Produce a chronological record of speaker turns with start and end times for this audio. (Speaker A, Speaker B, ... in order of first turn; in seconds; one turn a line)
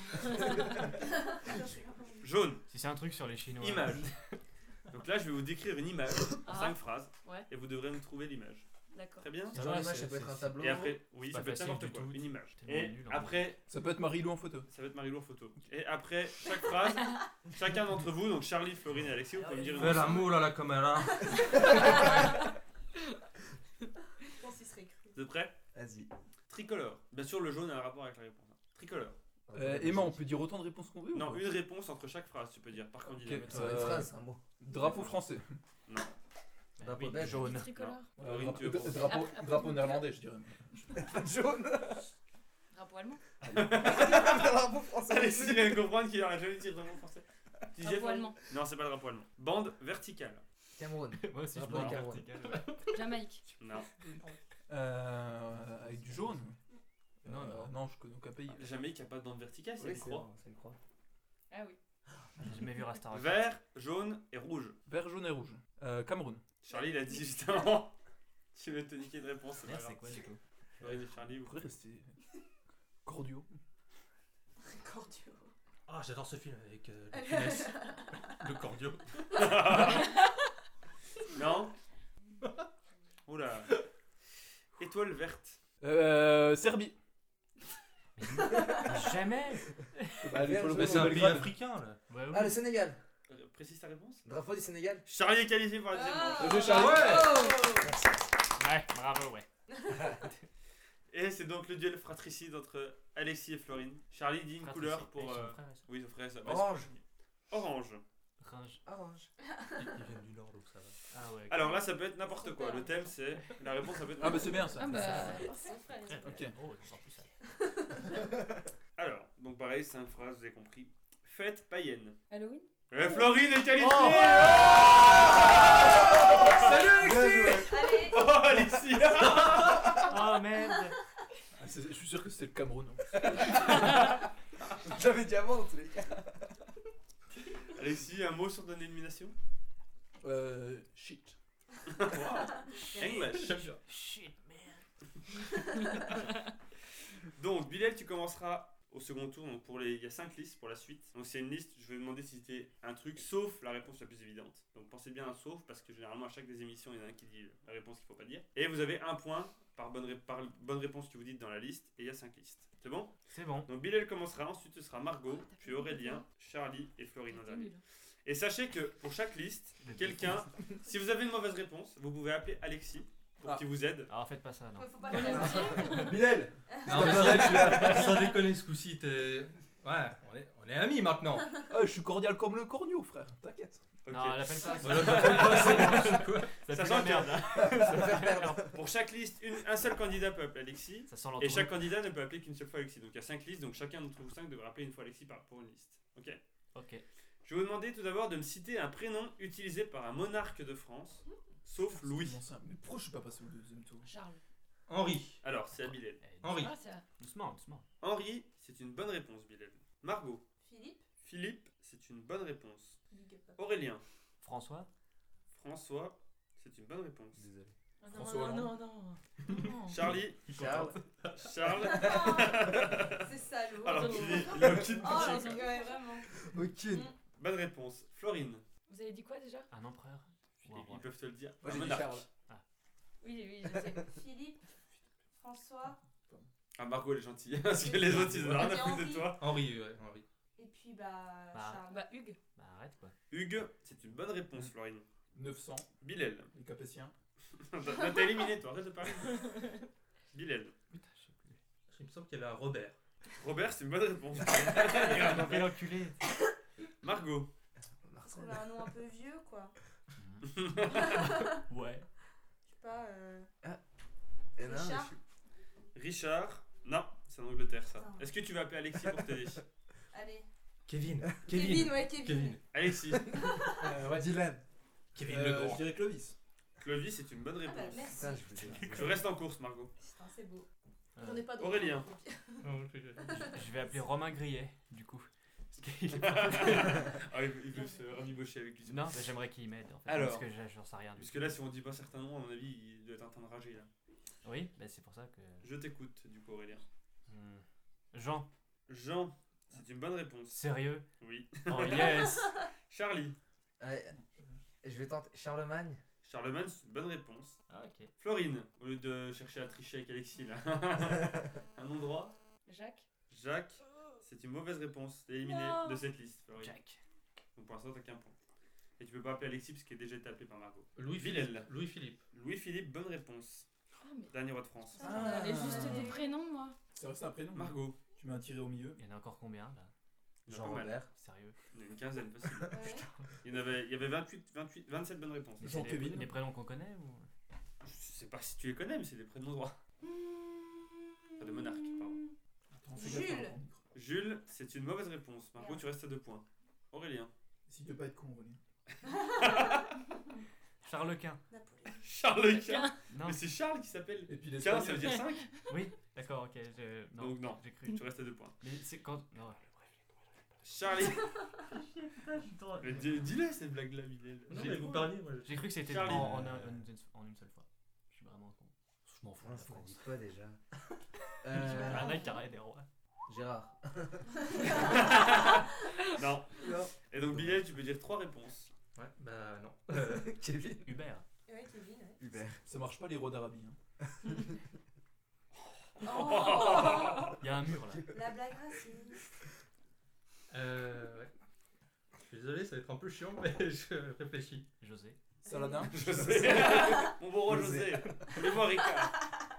Speaker A: 0.2-0.5
Speaker B: 0.4-0.8
Speaker C: 1.1-2.2
Speaker D: 2.2-2.6
Speaker E: 2.7-4.4
Speaker D: 3.6-4.1
Speaker D: 4.9-8.7
Speaker A: 6.4-7.5
Speaker A: 8.9-9.3
Speaker D: 9.2-9.6
Speaker B: 9.5-11.0
Speaker E: 9.5-10.6
Speaker D: 10.6-13.6
Speaker E: 11.2-13.5
Speaker F: 13.7-14.7
Speaker D: 14.7-20.2
Speaker A: 19.6-19.9
Speaker G: 19.7-22.0
Speaker C: 21.3-22.1
Speaker C: 24.3-25.1
Speaker D: 25.1-25.6
Speaker B: 25.7-26.1
Speaker D: 26.5-29.2
Speaker B: 29.5-30.3
Speaker F: 29.5-31.5
Speaker D: 31.1-33.7
Speaker F: 33.1-35.6
Speaker B: 33.5-34.4
Speaker E: 33.5-34.0
Speaker E: 34.8-35.1
Speaker D: 35.9-36.1
Speaker E: 36.8-37.7
Speaker B: 36.8-37.6
Speaker A: 37.4-38.1
Speaker D: 37.7-39.2
Speaker F: 38.2-41.0
Speaker A: 38.8-40.1
Speaker B: 40.9-42.1
Speaker A: 42.7-43.2
Speaker B: 43.4-45.9
Speaker D: 43.5-50.4
Speaker A: 47.8-48.4
Speaker B: 50.8-52.3
Speaker E: 51.2-52.8
Speaker G: 52.4-52.8
Speaker A: 52.9-53.4
Speaker D: 53.6-53.9
Speaker F: 54.7-56.5
Speaker F: 57.2-58.7
Speaker E: 57.2-57.7
Speaker D: 58.5-60.3
Speaker B: 59.8-60.8
Speaker A: 61.5-61.8
Speaker E: 62.4-63.5
Speaker D: 63.1-64.8
Speaker F: 64.9-66.4
Speaker D: 66.6-67.9
Speaker C: 66.7-67.1
Speaker D: 68.5-70.2
Speaker E: 69.6-70.4
Speaker D: 70.8-71.6
Speaker F: 71.4-72.1
Speaker F: 73.0-73.5
Speaker C: 74.6-75.5
Speaker G: 75.9-79.0
Speaker C: 77.1-78.3
Speaker D: 79.3-80.1
Speaker D: 81.3-81.7
Speaker G: 82.4-82.7
Speaker D: 83.3-83.7
Speaker D: 84.8-85.6
Speaker F: 85.8-86.9
Speaker E: 88.2-90.2
Speaker C: 88.5-88.8
Speaker F: 90.2-91.5
Speaker B: 90.3-91.4
Speaker G: 90.7-92.0
Speaker E: 92.1-92.6
Speaker B: 92.3-93.0
Speaker D: 93.3-94.2
Speaker B: 94.2-95.0
Speaker D: 95.0-96.8
Speaker C: 95.9-97.9
Speaker F: 96.4-97.3
Speaker G: 96.6-97.6
Speaker B: 97.6-98.2
Speaker E: 98.5-99.5
Speaker C: 99.7-100.1
Speaker D: 101.1-106.9
Speaker E: 104.6-105.8
Speaker B: 106.4-106.9
Speaker D: 107.5-108.0
Speaker E: 108.4-108.8
Speaker B: 108.8-109.3
Speaker C: 109.5-109.9
Speaker G: 109.8-111.0
Speaker E: 111.1-111.9
Speaker D: 111.5-114.8
Speaker C: 112.4-112.9
Speaker F: 114.2-115.4
Speaker A: 114.7-115.8
Speaker E: 114.9-115.5
Speaker C: 115.0-116.5
Speaker E: 116.1-117.3
Speaker F: 116.2-116.5
Speaker C: 117.6-118.1
Speaker D: 119.0-122.2
Speaker A: 122.3-122.7
Speaker D: 122.9-125.6
Speaker G: 123.9-124.6
Speaker B: 126.2-127.8
Speaker D: 126.3-129.8
Speaker G: 126.6-127.4
Speaker C: 126.7-128.3
Speaker G: 129.3-129.9
Speaker B: 129.8-130.1
Speaker E: 129.8-131.0
Speaker F: 131.6-133.7
Speaker B: 133.2-134.1
Speaker B: 134.8-136.3
Speaker D: 137.7-139.3
Speaker F: 140.2-141.3
Speaker D: 141.9-143.7
Speaker C: 142.9-143.2
Speaker G: 143.2-143.8
Speaker E: 143.9-144.8
Speaker D: 147.3-163.1
Speaker E: 163.3-163.7
Speaker D: 163.6-167.7
Speaker A: 165.3-166.2
Speaker A: 167.3-167.8
Speaker D: 168.2-174.1
Speaker E: 169.8-170.4
Speaker E: 174.1-175.8
Speaker C: 174.7-176.1
Speaker A: 175.0-176.2
Speaker F: 175.9-178.2
Speaker C: 176.7-177.8
Speaker G: 176.8-181.6
Speaker F: 181.7-183.8
Speaker D: 184.0-188.0
Speaker E: 184.1-188.7
Speaker G: 184.8-186.6
Speaker B: 187.4-188.7
Speaker D: 188.7-196.4
Speaker E: 191.1-191.8
Speaker E: 196.7-197.0
Speaker D: 197.4-202.4
Speaker F: 201.8-204.1
Speaker A: 204.0-204.4
Speaker G: 204.9-205.4
Speaker D: 205.4-206.2
Speaker E: 205.7-207.8
Speaker G: 206.4-206.7
Speaker A: 206.5-207.0
Speaker D: 208.0-210.4
Speaker C: 210.6-211.0
Speaker D: 211.2-213.0
Speaker C: 213.1-213.6
Speaker D: 213.6-214.0
Speaker E: 214.4-214.9
Speaker D: 215.5-217.4
Speaker B: 217.3-217.7
Speaker A: 218.0-220.1
Speaker F: 218.1-218.8
Speaker D: 219.8-225.6
Speaker G: 220.1-221.5
Speaker B: 220.5-221.0
Speaker C: 221.8-226.3
Speaker A: 223.9-226.0
Speaker B: 224.7-224.9
Speaker B: 226.3-227.1
Speaker D: 227.4-228.6
Speaker A: 228.9-229.7
Speaker E: 229.7-231.1
Speaker D: 230.7-232.2
Speaker B: 231.6-232.2
Speaker F: 231.7-232.2
Speaker A: 233.2-234.1
Speaker C: 233.9-234.6
Speaker C: 235.3-236.0
Speaker D: 236.7-239.4
Speaker C: 237.8-239.3
Speaker G: 238.2-238.7
Speaker G: 239.3-240.2
Speaker C: 240.6-242.1
Speaker E: 241.5-241.8
Speaker A: 241.8-242.4
Speaker E: 242.5-243.1
Speaker D: 243.3-245.1
Speaker F: 245.3-245.9
Speaker D: 246.0-246.5
Speaker F: 246.5-247.1
Speaker D: 247.6-249.5
Speaker D: 250.3-250.7
Speaker E: 250.9-251.6
Speaker G: 251.9-253.0
Speaker D: 253.4-255.8
Speaker E: 254.7-256.2
Speaker D: 257.0-257.5
Speaker B: 258.0-258.8
Speaker C: 258.2-259.7
Speaker E: 260.2-262.1
Speaker D: 260.4-261.2
Speaker C: 260.9-261.6
Speaker C: 262.7-263.5
Speaker B: 264.6-265.2
Speaker C: 264.6-265.1
Speaker D: 265.9-269.6
Speaker C: 267.9-268.3
Speaker C: 270.1-270.5
Speaker G: 270.9-272.6
Speaker C: 271.5-272.6
Speaker D: 272.7-273.3
Speaker B: 273.2-274.6
Speaker C: 273.3-273.9
Speaker F: 273.8-274.3
Speaker G: 275.1-275.9
Speaker F: 275.2-276.4
Speaker D: 276.8-278.1
Speaker C: 277.6-278.8
Speaker B: 278.1-279.2
Speaker E: 278.7-279.1
Speaker D: 278.8-279.9
Speaker C: 280.0-280.6
Speaker E: 281.1-281.5
Speaker C: 281.2-283.9
Speaker D: 281.6-282.1
Speaker G: 282.6-283.6
Speaker E: 283.3-287.2
Speaker D: 286.1-289.1
Speaker C: 287.7-288.1
Speaker E: 288.8-291.6
Speaker D: 290.1-290.5
Speaker D: 291.2-293.9
Speaker E: 294.4-295.7
Speaker D: 295.6-296.8
Speaker E: 297.3-298.5
Speaker D: 298.9-300.6
Speaker E: 300.5-301.1
Speaker D: 301.2-302.4
Speaker E: 301.6-302.6
Speaker D: 302.9-303.4
Speaker B: 303.8-304.1
Speaker B: 304.8-306.0
Speaker D: 306.2-307.6
Speaker E: 307.7-308.1
Speaker D: 308.2-312.4
Speaker A: 312.6-313.0
Speaker D: 313.3-316.7
Speaker A: 315.4-316.0
Speaker E: 316.6-317.0
Speaker D: 317.6-318.3
Speaker D: 319.0-321.7
Speaker G: 320.9-322.2
Speaker D: 322.3-323.7
Speaker A: 324.0-324.3
Speaker D: 324.3-325.1
Speaker C: 324.9-326.3
Speaker F: 325.0-326.1
Speaker A: 325.0-326.8
Speaker F: 326.9-329.0
Speaker D: 327.5-328.0
Speaker E: 328.9-329.9
Speaker D: 330.4-331.0
Speaker B: 330.5-331.1
Speaker E: 331.1-331.6
Speaker D: 331.7-332.9
Speaker C: 332.7-333.1
Speaker D: 333.4-336.0
Speaker E: 335.6-337.3
Speaker F: 335.6-336.3
Speaker D: 337.8-339.8
Speaker D: 341.4-342.2
Speaker F: 342.7-343.8
Speaker C: 342.9-343.6
Speaker D: 343.9-347.3
Speaker C: 345.6-345.8
Speaker F: 347.7-348.6
Speaker C: 349.1-349.8
Speaker D: 349.3-349.9
Speaker E: 350.8-351.4
Speaker C: 351.5-352.1
Speaker D: 352.0-355.5
Speaker A: 352.4-352.9
Speaker E: 353.1-353.4
Speaker F: 354.3-355.2
Speaker E: 355.7-358.0
Speaker D: 357.2-358.5
Speaker E: 358.6-361.2
Speaker D: 360.6-361.3
Speaker C: 361.0-361.4
Speaker G: 361.7-363.1
Speaker D: 362.8-365.1
Speaker G: 364.5-366.6
Speaker E: 365.4-370.1
Speaker D: 365.9-366.3
Speaker B: 369.4-370.6
Speaker B: 371.4-372.2
Speaker E: 371.5-372.9
Speaker C: 371.8-372.1
Speaker B: 373.3-374.8
Speaker C: 374.6-374.8
Speaker D: 374.6-378.7
Speaker B: 376.6-377.6
Speaker G: 378.9-380.4
Speaker B: 379.9-380.9
Speaker E: 380.8-381.2
Speaker C: 381.5-382.2
Speaker B: 382.2-382.6
Speaker F: 382.6-383.8
Speaker D: 386.0-387.3
Speaker C: 386.0-387.3
Speaker E: 387.4-388.1
Speaker C: 388.1-389.2
Speaker G: 390.5-391.3
Speaker G: 392.2-394.7
Speaker E: 394.8-395.2
Speaker C: 395.4-395.9
Speaker F: 395.4-396.6
Speaker D: 395.9-399.2
Speaker C: 396.6-397.1
Speaker F: 397.5-397.9